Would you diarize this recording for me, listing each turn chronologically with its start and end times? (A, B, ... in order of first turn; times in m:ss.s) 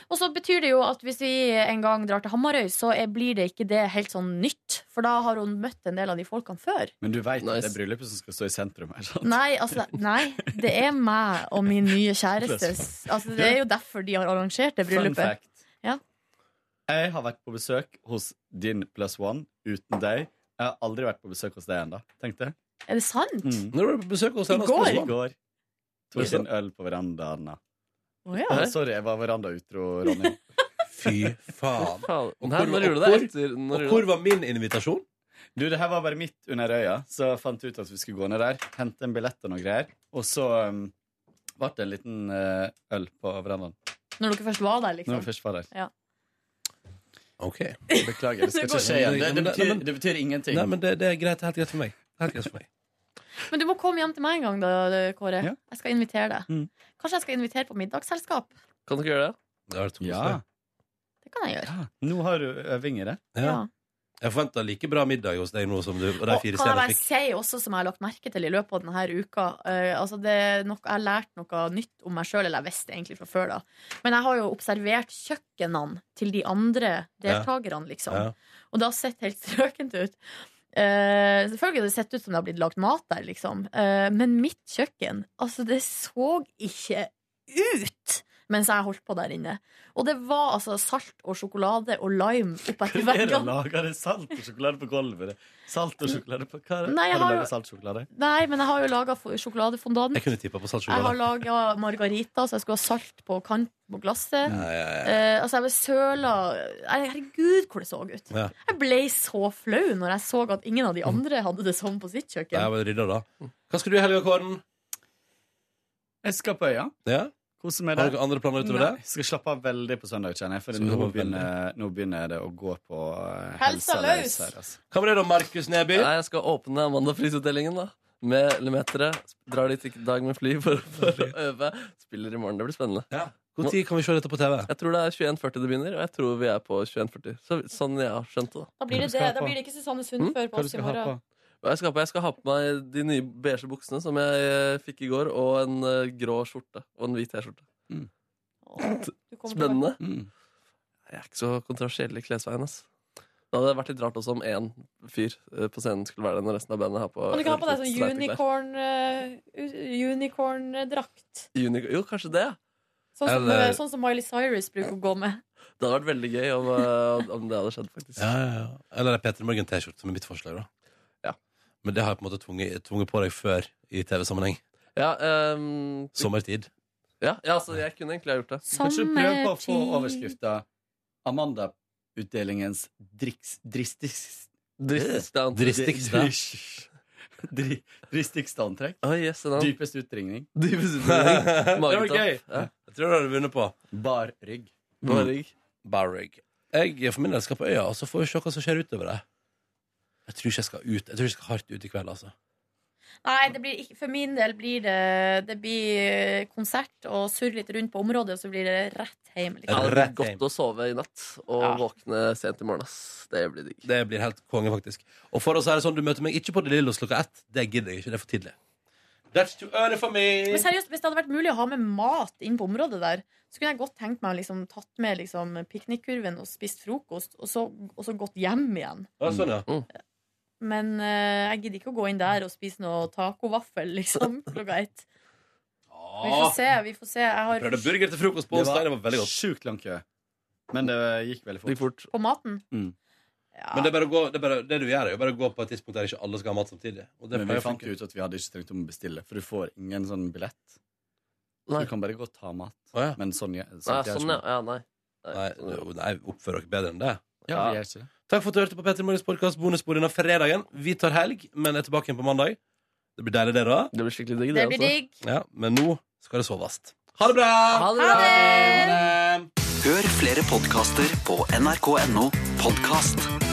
0:00.1-0:06.9 A
0:07.0-0:09.8 B
0:07.4-0:07.8 C
0:09.2-0:16.0 A
0:12.4-0:12.8 B
0:13.3-0:13.6 B
0:14.9-0:15.6 B
0:16.9-0:22.6 B
0:22.9-0:23.7 A
0:23.4-0:23.8 B
0:23.7-0:25.1 D
0:24.5-0:25.1 A
0:24.7-0:25.4 B
0:26.1-0:27.6 B
0:26.2-0:26.4 C
0:28.3-0:28.7 A
0:28.5-0:30.4 B
0:30.9-0:35.0 D
0:31.8-0:34.1 C
0:35.6-0:40.9 B
0:41.6-0:43.8 B
0:44.2-0:45.9 A
0:45.1-0:45.7 B
0:47.4-0:47.8 D
0:47.9-0:49.0 A
0:48.0-0:50.7 B
0:48.7-0:49.9 D
0:50.5-0:52.7 D
0:53.5-0:58.5 A
0:58.9-0:59.4 C
0:59.7-1:00.4 D
1:00.0-1:00.4 B
1:01.3-1:01.7 A
1:01.7-1:03.3 B
1:03.4-1:03.6 D
1:03.4-1:03.7 A
1:04.2-1:07.0 D
1:06.3-1:20.2 A
1:20.7-1:33.5 A
1:32.8-1:38.1 B
1:36.8-1:37.5 A
1:38.1-1:40.2 A
1:40.1-1:41.2 D
1:40.9-1:52.7 A
1:44.5-1:45.2 D
1:52.5-1:54.6 D
1:56.2-1:57.0 B
1:57.1-1:57.3 D
1:57.6-2:04.8 B
1:58.0-1:59.0 D
2:00.7-2:01.5 D
2:03.6-2:04.5 A
2:04.9-2:06.1 D
2:05.9-2:13.1 C
2:13.1-2:14.7 D
2:14.7-2:18.7 C
2:18.8-2:21.1 A
2:18.9-2:19.6 B
2:20.5-2:21.2 B
2:21.6-2:27.7 C
2:28.7-2:29.9 A
2:28.8-2:30.0 C
2:30.0-2:30.3 B
2:31.1-2:32.8 C
2:33.5-2:38.4 C
2:37.3-2:41.5 A
2:41.6-2:42.6 C
2:43.2-2:45.4 A
2:43.3-2:43.8 D
2:45.8-2:48.3 C
2:48.2-2:50.7 D
2:51.8-2:54.6 D
2:55.0-2:56.2 C
2:56.2-2:56.7 D
2:57.2-2:58.8 C
2:58.7-3:00.4 A
2:58.8-3:00.6 B
3:01.2-3:04.5 B
3:04.8-3:05.8 C
3:05.0-3:06.3 D
3:05.7-3:06.9 B
3:07.4-3:09.0 B
3:09.0-3:09.8 C
3:09.6-3:10.5 B
3:10.6-3:12.7 C
3:11.0-3:13.8 D
3:13.9-3:14.7 B
3:15.0-3:15.5 C
3:15.1-3:15.3 D
3:15.8-3:19.2 D
3:20.3-3:22.3 D
3:23.2-3:29.8 A
3:29.7-3:30.4 D
3:29.7-3:33.8 C
3:33.8-3:38.6 D
3:39.3-3:40.7 D
3:40.5-3:49.1 A
3:49.2-3:49.7 D
3:50.6-3:55.1 A
3:55.9-3:56.6 D
3:56.2-3:57.9 A
3:57.5-3:59.4 D
3:58.5-4:00.0 B
4:00.7-4:01.9 B
4:01.6-4:02.1 C
4:02.1-4:02.6 A
4:03.6-4:03.9 A
4:03.7-4:07.9 D
4:07.3-4:10.8 B
4:11.8-4:14.4 B
4:13.9-4:15.8 C
4:15.3-4:17.2 D
4:17.5-4:18.1 B
4:17.5-4:17.8 C
4:18.3-4:22.6 D
4:23.2-4:23.9 D
4:23.9-4:25.0 C
4:24.5-4:25.2 A
4:25.2-4:29.5 D
4:27.7-4:29.1 C
4:28.0-4:29.0 A
4:29.8-4:33.3 E